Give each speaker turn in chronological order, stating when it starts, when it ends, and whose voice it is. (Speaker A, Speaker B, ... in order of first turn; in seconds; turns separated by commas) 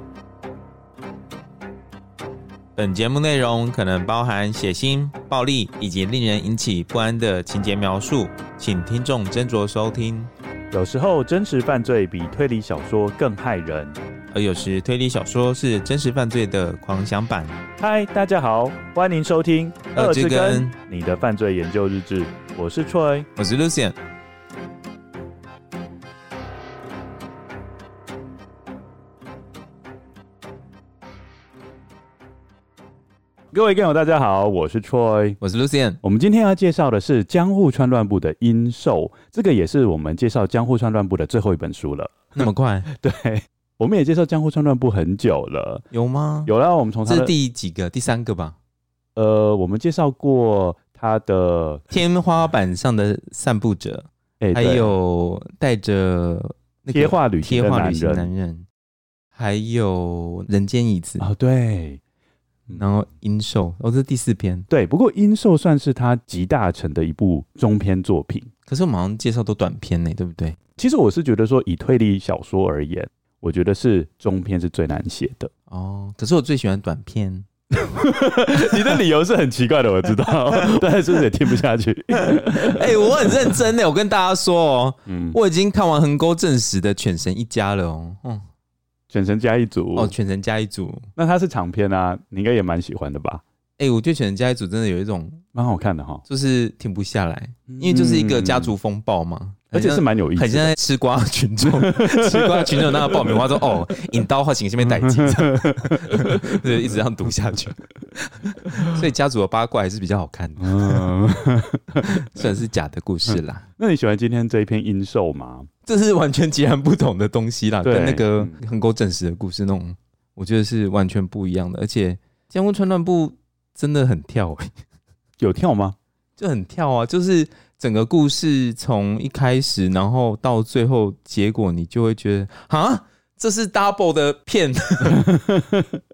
Speaker A: 2.8-10.3, Speaker B: 10.7-14.0, Speaker A: 14.3-17.6, Speaker B: 17.8-23.3, Speaker A: 19.9-20.8, Speaker A: 23.4-24.0, Speaker B: 33.5-35.4, Speaker A: 35.4-36.0, Speaker B: 36.0-45.9, Speaker A: 42.4-42.9, Speaker A: 45.9-46.5, Speaker B: 46.5-47.4, Speaker A: 47.1-48.6, Speaker B: 49.2-51.9, Speaker A: 51.9-58.7, Speaker B: 54.4-54.9, Speaker B: 56.9-58.3, Speaker A: 59.4-61.3, Speaker B: 61.2-62.0, Speaker A: 62.7-64.7, Speaker B: 64.7-68.5, Speaker A: 68.7-70.6, Speaker B: 70.8-75.5, Speaker A: 75.7-77.5, Speaker B: 77.7-83.3, Speaker A: 82.2-88.4, Speaker B: 85.1-85.4, Speaker B: 89.1-90.1, Speaker A: 90.0-91.1, Speaker B: 91.2-93.4, Speaker A: 93.8-95.4, Speaker B: 95.5-96.2, Speaker A: 96.3-111.1, Speaker B: 97.7-98.8, Speaker B: 99.7-100.8, Speaker B: 101.6-103.6, Speaker B: 104.8-106.7, Speaker B: 110.6-112.2, Speaker A: 112.0-113.7, Speaker B: 113.8-115.7, Speaker A: 115.9-124.8, Speaker B: 117.8-118.5, Speaker B: 125.4-126.0, Speaker A: 126.4-135.3, Speaker B: 135.1-136.0